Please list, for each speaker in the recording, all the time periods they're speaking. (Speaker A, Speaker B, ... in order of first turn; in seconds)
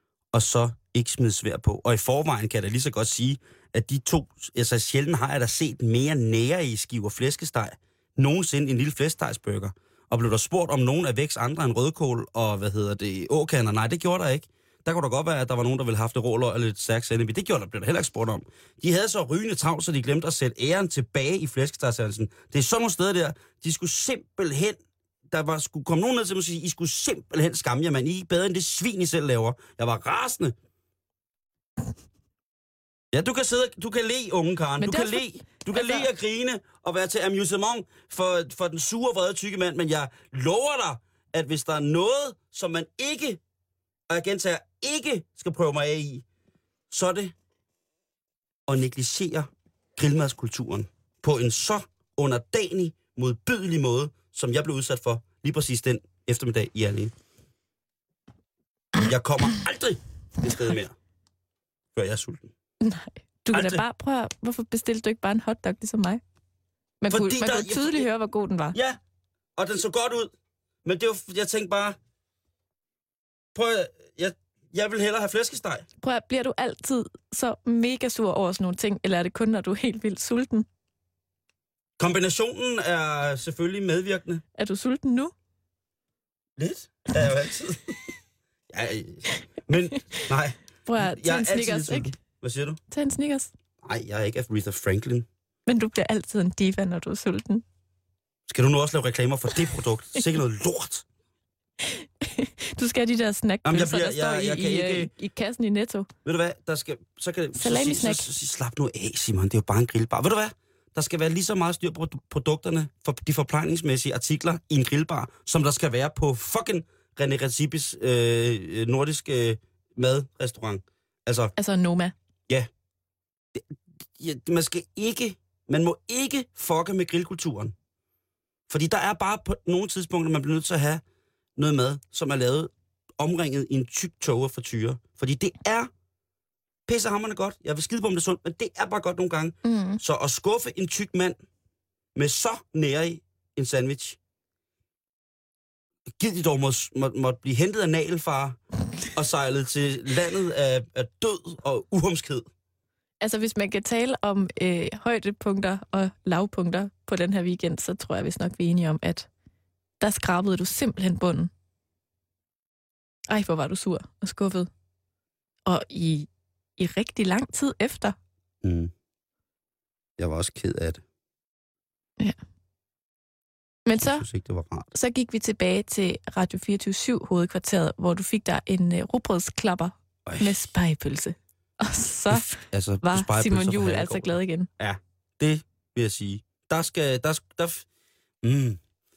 Speaker A: 0.3-30.5, 33.1-43.4, 44.1-46.2, 46.9-47.3, 48.7-57.1, 58.9-61.0, 61.9-62.5, 63.5-63.8, 67.1-68.1, 68.7-69.0, 69.5-70.3, 70.8-72.0, 73.5-75.8, 82.0-84.4, 86.6-88.1, 88.7-92.8, 93.8-95.3, 98.5-101.0, 103.6-105.1, 106.2-121.5, 123.5-127.7, 128.7-131.0, 131.6-135.9, 136.9-141.4, 142.1-144.2, 146.2-152.5, 168.6-168.9, 170.2-171.0, 174.0-174.9, 180.2-180.6, 182.3-187.8, 188.4-188.8
Speaker B: 34.8-36.0, 62.8-66.2, 67.0-68.8, 76.0-80.7, 84.6-85.3, 90.8-92.2, 92.9-93.5, 95.7-97.6, 101.8-106.1, 107.5-108.3, 121.5-122.1, 139.6-140.0, 153.2-159.3, 160.0-161.5, 163.3-164.7, 165.7-168.2, 173.8-174.2, 174.9-184.7